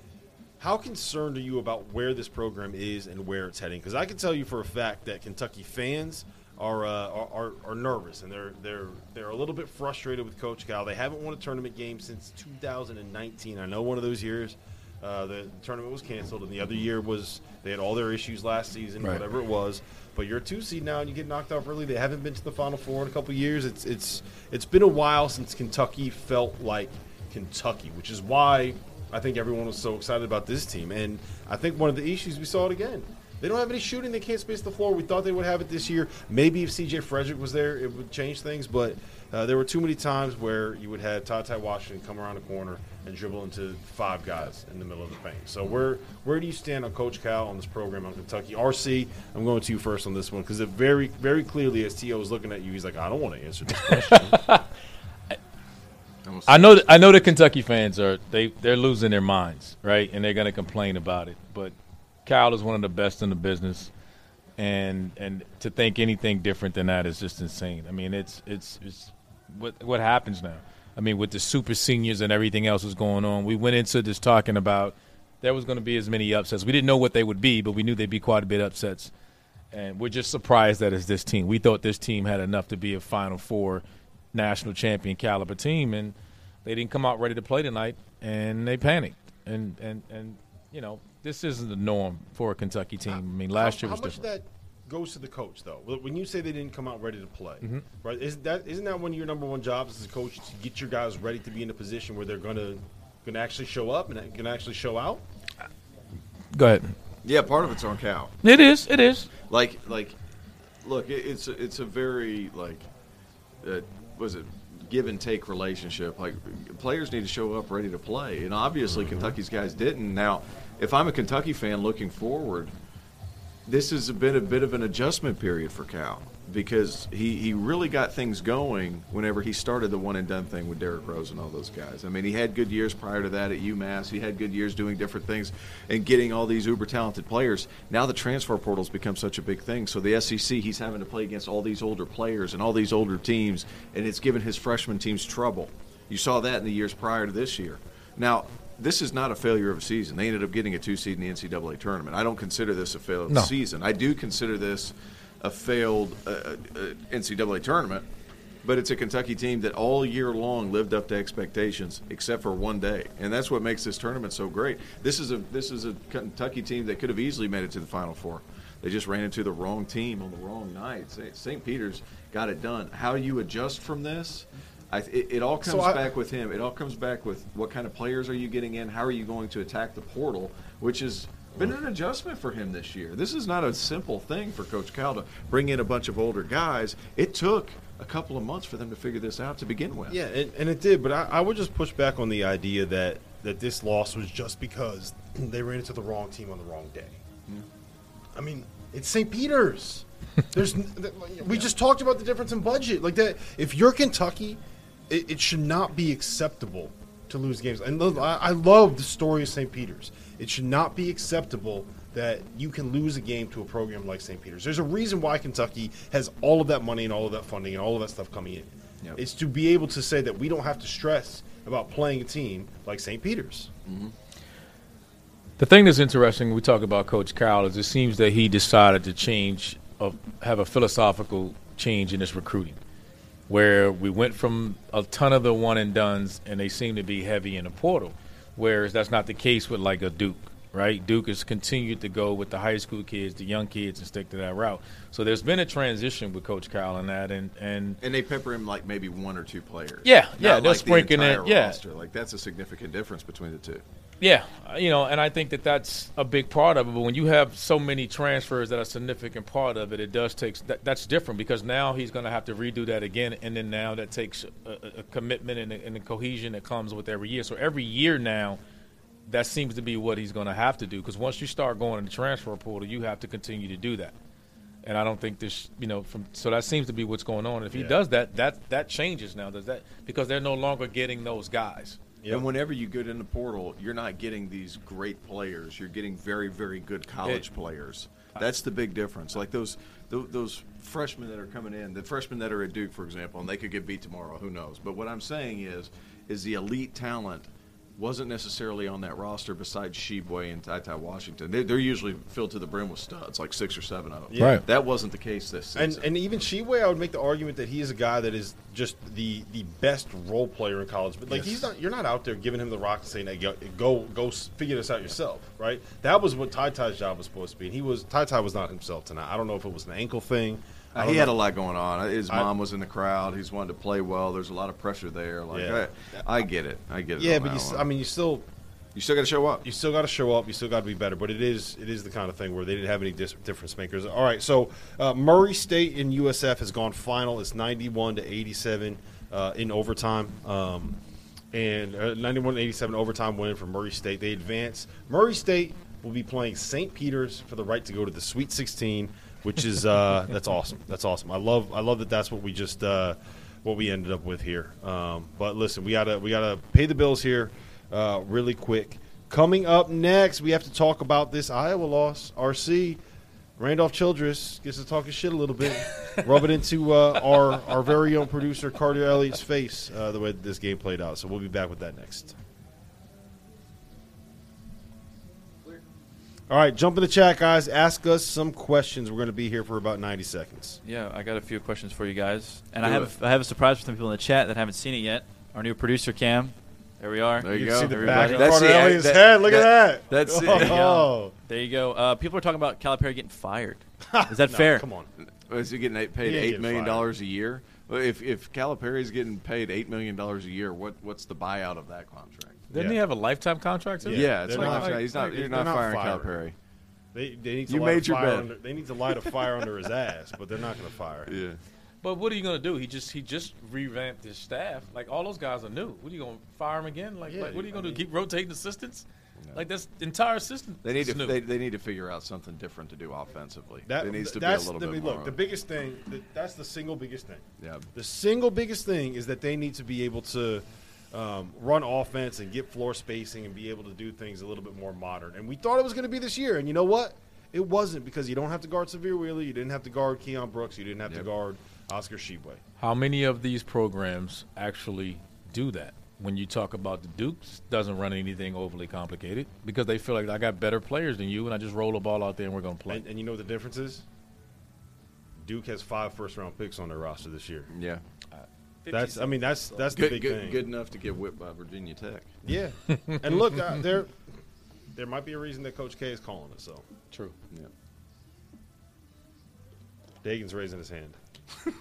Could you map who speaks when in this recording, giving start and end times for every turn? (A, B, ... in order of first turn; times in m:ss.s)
0:00.6-0:54.5 A
0:54.1-0:54.6 B
0:56.2-0:56.9 C
0:56.5-1:01.7 B
1:02.2-1:03.9 B
1:04.6-1:19.1 B
1:19.7-1:34.2 B
1:33.1-1:45.2 A
1:46.5-1:46.9 B
1:47.2-1:48.3 C
1:48.4-1:49.3 B
1:49.5-1:50.2 C
1:50.8-1:52.9 C
1:53.6-2:02.7 C
1:58.9-1:59.4 A
2:03.7-2:38.0 C
2:38.6-3:10.2 C
2:55.6-2:56.1 A
3:10.1-3:17.2 A
3:18.3-3:43.7 A
3:43.8-3:44.1 C
3:45.6-3:52.8 B
3:53.5-4:08.0 B
4:08.0-4:13.8 C
4:10.0-4:11.8 B
4:14.2-4:28.6 B
4:29.3-4:34.1 B
4:34.8-4:42.0 B
4:37.7-4:38.0 A
4:42.3-5:06.0 C
5:04.3-5:04.6 A
5:04.4-5:04.6 B
5:05.8-5:21.4 A
5:20.9-5:27.9 C
5:25.5-5:25.9 A
5:27.2-5:28.4 A
5:28.9-5:29.6 C
5:29.6-5:41.0 A
5:41.5-6:03.0 A
6:03.6-6:12.4 A
6:16.5-6:20.8 A
6:20.8-6:28.5 D
6:22.8-6:23.1 C
6:27.4-6:30.8 C
6:27.5-6:31.3 A
6:30.5-6:34.8 D
6:34.1-6:35.1 A
6:35.5-6:42.7 C
6:36.2-6:37.1 A
6:42.7-6:43.0 A
6:42.7-6:45.0 B
6:44.0-6:46.4 A
6:44.1-6:46.6 C
6:47.1-6:51.3 A
6:47.7-6:48.5 C
6:51.3-6:51.6 C
6:52.0-7:01.4 B
6:57.3-6:58.0 A
7:00.8-7:05.4 C
7:03.9-7:07.4 A
7:07.6-7:07.9 C
7:07.9-7:22.6 A
7:22.8-7:33.0 B
7:32.9-7:34.0 A
7:35.4-7:37.7 A
7:37.7-7:38.0 C
7:38.8-7:39.8 D
7:38.9-7:40.6 A
7:39.9-7:42.3 C
7:42.4-7:44.2 A
7:42.9-7:43.6 B
7:44.9-7:46.8 A
7:50.2-7:51.2 A